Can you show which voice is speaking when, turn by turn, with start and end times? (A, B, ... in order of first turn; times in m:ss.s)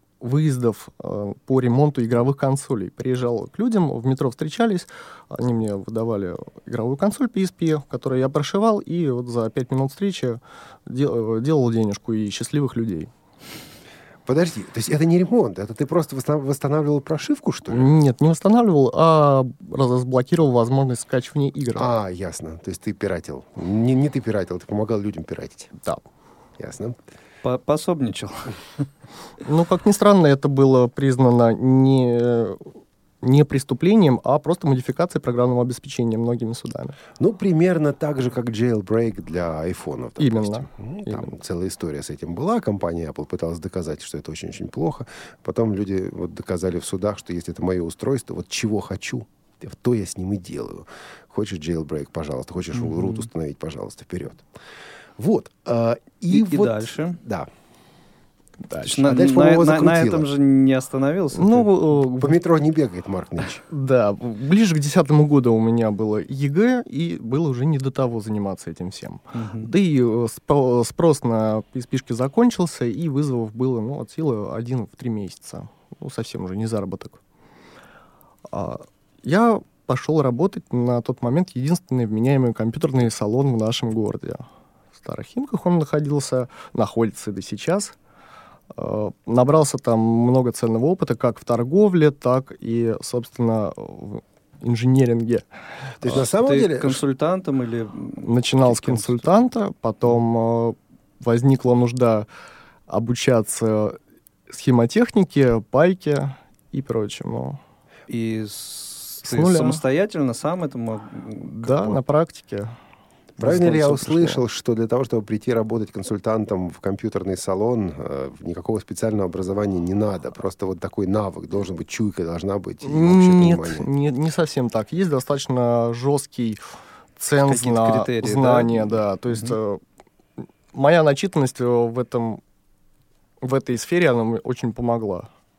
0:00.2-0:13.1 A
0:14.2-0:17.9 B
0:17.7-0:21.9 A
0:21.7-0:25.7 B
0:26.6-0:27.0 B
0:27.4-0:28.6 C
0:29.4-0:32.7 A
0:33.2-0:37.0 A
0:37.2-0:54.4 B
0:40.2-0:41.3 A
0:52.7-0:53.3 C
0:55.2-0:57.5 B
0:56.3-0:57.2 C
0:58.8-1:00.2 B
0:58.8-1:01.7 C
1:01.3-1:02.4 A
1:02.2-1:03.6 B
1:03.7-1:17.2 A
1:09.3-1:09.7 C
1:18.5-1:24.4 A
1:25.0-1:28.0 A
1:28.8-1:35.5 A
1:36.0-1:37.0 B
1:36.0-1:39.3 C
1:38.2-1:42.3 A
1:42.9-1:44.0 A
1:44.5-1:47.6 A
1:48.1-1:52.0 C
1:49.2-1:49.8 A
1:51.4-1:52.7 A
1:53.4-2:03.9 B
1:53.4-1:54.4 A
2:02.8-2:06.6 A
2:07.2-2:09.8 A
2:07.4-2:09.6 C
2:10.7-2:12.4 A
2:13.4-2:15.3 A